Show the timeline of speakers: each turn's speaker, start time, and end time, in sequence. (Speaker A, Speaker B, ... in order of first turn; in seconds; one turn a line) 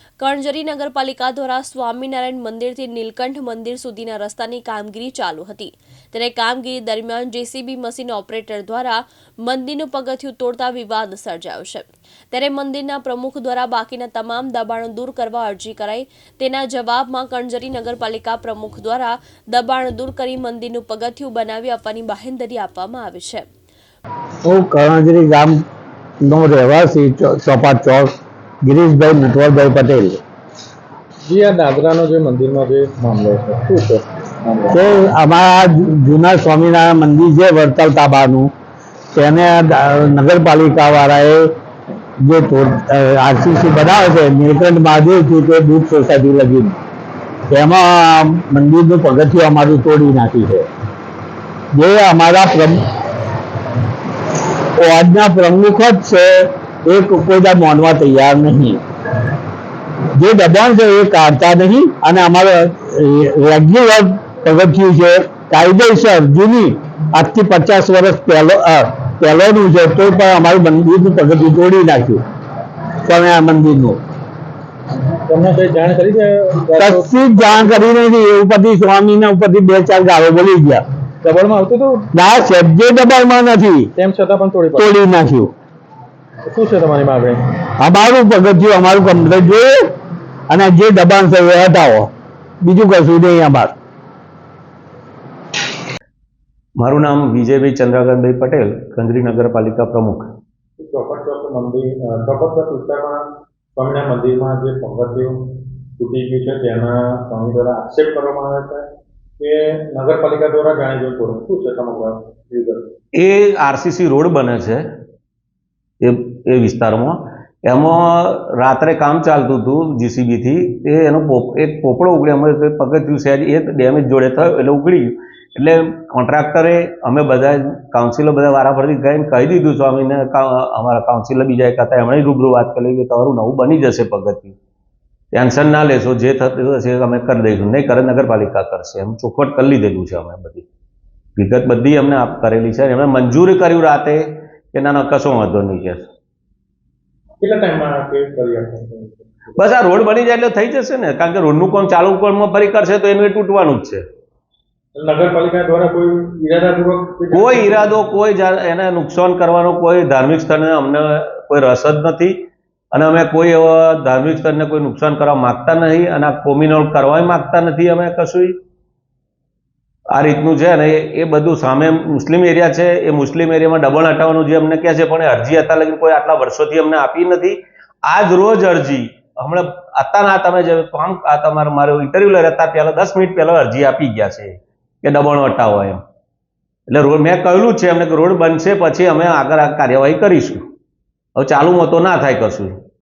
Speaker A: 0.2-23.4
Speaker B: 24.4-25.6
Speaker B: 26.2-28.1
Speaker B: 28.6-30.2
Speaker C: 31.2-34.8
Speaker B: 34.7-38.5
Speaker B: 39.1-41.5
Speaker B: 42.2-46.8
Speaker B: 47.5-50.7
Speaker B: 51.7-52.8
Speaker B: 54.8-58.8
Speaker B: 60.1-72.2
Speaker B: 73.0-74.0
Speaker C: 75.3-77.7
Speaker B: 76.8-80.8
Speaker C: 81.2-82.0
Speaker B: 82.1-83.9
Speaker C: 84.0-84.9
Speaker B: 84.8-85.5
Speaker C: 86.5-87.5
Speaker B: 87.8-90.0
Speaker B: 90.5-92.1
Speaker B: 92.6-93.7
Speaker D: 96.8-100.3
Speaker C: 100.8-103.2
Speaker C: 103.8-105.4
Speaker C: 106.0-108.8
Speaker C: 109.4-112.8
Speaker D: 113.2-114.8
Speaker D: 116.0-134.6
Speaker D: 135.3-140.7
Speaker D: 141.4-146.1
Speaker C: 147.4-149.3
Speaker D: 149.6-154.0
Speaker C: 154.9-157.9
Speaker D: 157.3-168.6
Speaker D: 170.1-186.0
Speaker D: 186.9-190.6
Speaker D: 191.4-192.7